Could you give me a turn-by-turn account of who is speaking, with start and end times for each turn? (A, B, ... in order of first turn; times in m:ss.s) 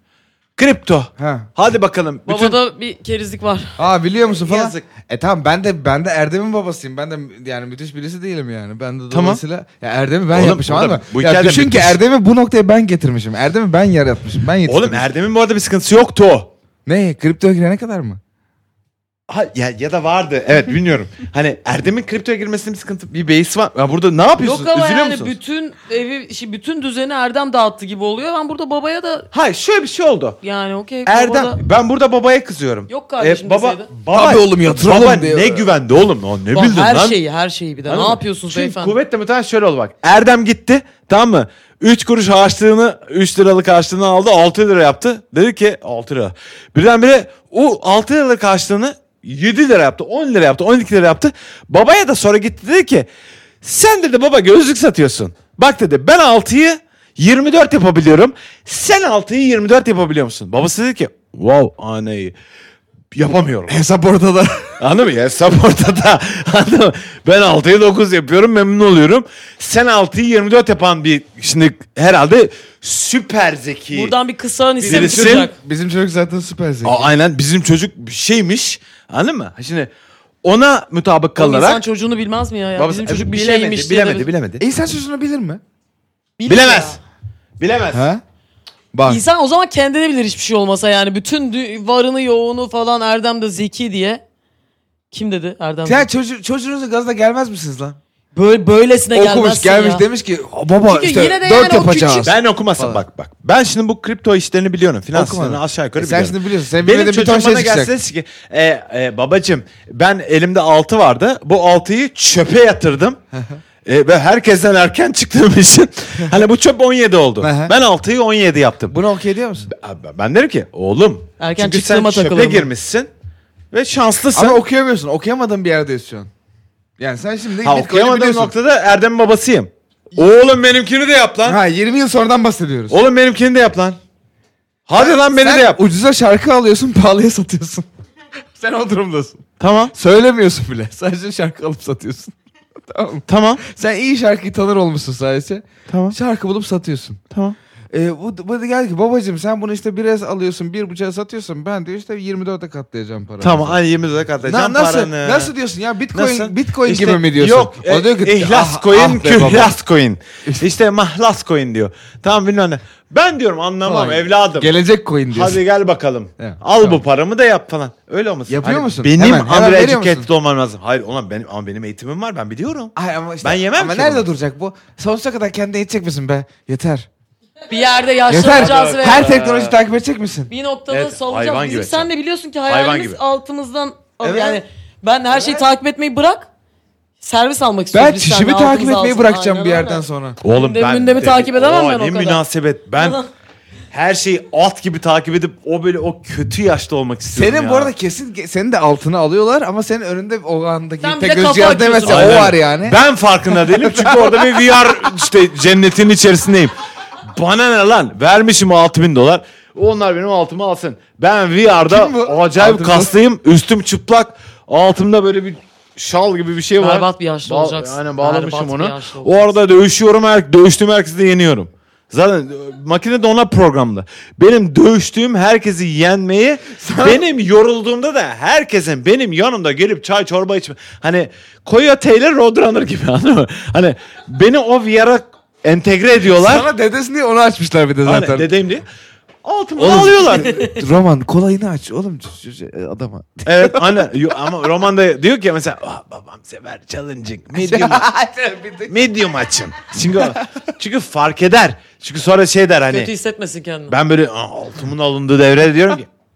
0:00.6-0:02.6 A
0:01.2-0:01.5 B
0:02.3-0:03.8 C
0:03.8-0:15.1 B
0:04.4-0:04.8 A
0:09.1-0:09.4 A
0:10.3-0:12.0 A
0:14.6-0:16.5 A
0:16.8-0:18.2 B
0:19.3-0:25.4 A
0:24.4-0:29.3 C
0:29.3-0:30.4 A
0:30.4-0:31.6 C
0:31.0-0:37.2 A
0:32.9-0:33.9 C
0:34.1-0:35.7 B
0:36.5-0:39.0 C
0:37.9-0:53.1 A
0:53.6-1:02.3 A
1:03.1-1:03.8 A
1:03.7-1:04.8 B
1:04.8-1:14.1 A
1:13.9-1:15.5 C
1:14.8-1:15.5 A
1:14.8-1:17.0 B
1:16.8-1:19.9 A
1:20.4-1:21.8 A
1:21.4-1:24.3 C
1:22.8-1:24.6 A
1:24.6-1:25.6 B
1:26.4-1:27.0 C
1:26.4-1:27.0 A
1:27.6-1:28.0 A
1:27.9-1:28.2 B
1:28.9-1:29.2 B
1:29.0-1:34.2 C
1:35.1-1:36.1 C
1:35.8-1:38.0 B
1:38.3-1:40.0 C
1:39.1-1:43.0 B
1:40.9-1:42.3 C
1:42.2-1:53.2 A
1:45.1-1:47.9 B
1:53.3-1:53.6 B
1:53.8-1:59.0 A
1:57.4-1:57.7 B
1:58.9-1:59.7 B
1:59.6-2:03.1 A
2:01.4-2:02.7 C
2:03.7-2:04.6 A
2:04.3-2:06.3 B
2:07.0-2:08.5 B
2:07.6-2:11.6 A
2:11.4-2:13.0 B
2:12.9-2:14.0 A
2:14.9-2:15.8 A
2:15.0-2:17.9 B
2:18.6-2:22.3 B
2:19.6-2:19.9 A
2:22.8-2:27.2 B
2:23.3-2:23.6 A
2:25.9-2:26.2 A
2:27.3-2:27.6 A
2:27.9-2:33.8 B
2:33.4-2:35.5 A
2:34.4-2:39.7 B
2:36.1-2:44.7 A
2:43.8-2:45.6 B
2:45.3-2:54.3 A
2:46.4-2:47.0 B
2:48.5-2:50.3 B
2:53.0-2:57.1 B
2:57.7-2:59.4 C
2:58.3-3:00.5 B
2:58.3-2:59.8 A
3:00.5-3:06.5 C
3:00.9-3:02.1 A
3:02.7-3:03.2 A
3:04.2-3:04.6 B
3:07.2-3:12.4 C
3:07.9-3:10.4 B
3:10.4-3:13.2 A
3:13.0-3:13.3 C
3:13.9-3:17.9 A
3:17.3-3:23.0 B
3:21.0-3:22.5 C
3:22.0-3:56.7 A
3:23.5-3:24.6 B
3:31.8-3:33.1 B
3:36.8-3:39.5 C
3:46.7-3:47.2 B
3:56.2-3:58.5 B
3:58.0-3:58.8 A
3:59.4-4:00.5 A
3:59.8-4:04.1 B
3:59.9-4:00.8 C
4:03.4-4:08.1 A
4:07.5-4:08.9 B
4:08.9-4:13.1 A
4:12.9-4:14.0 C
4:13.9-4:16.1 A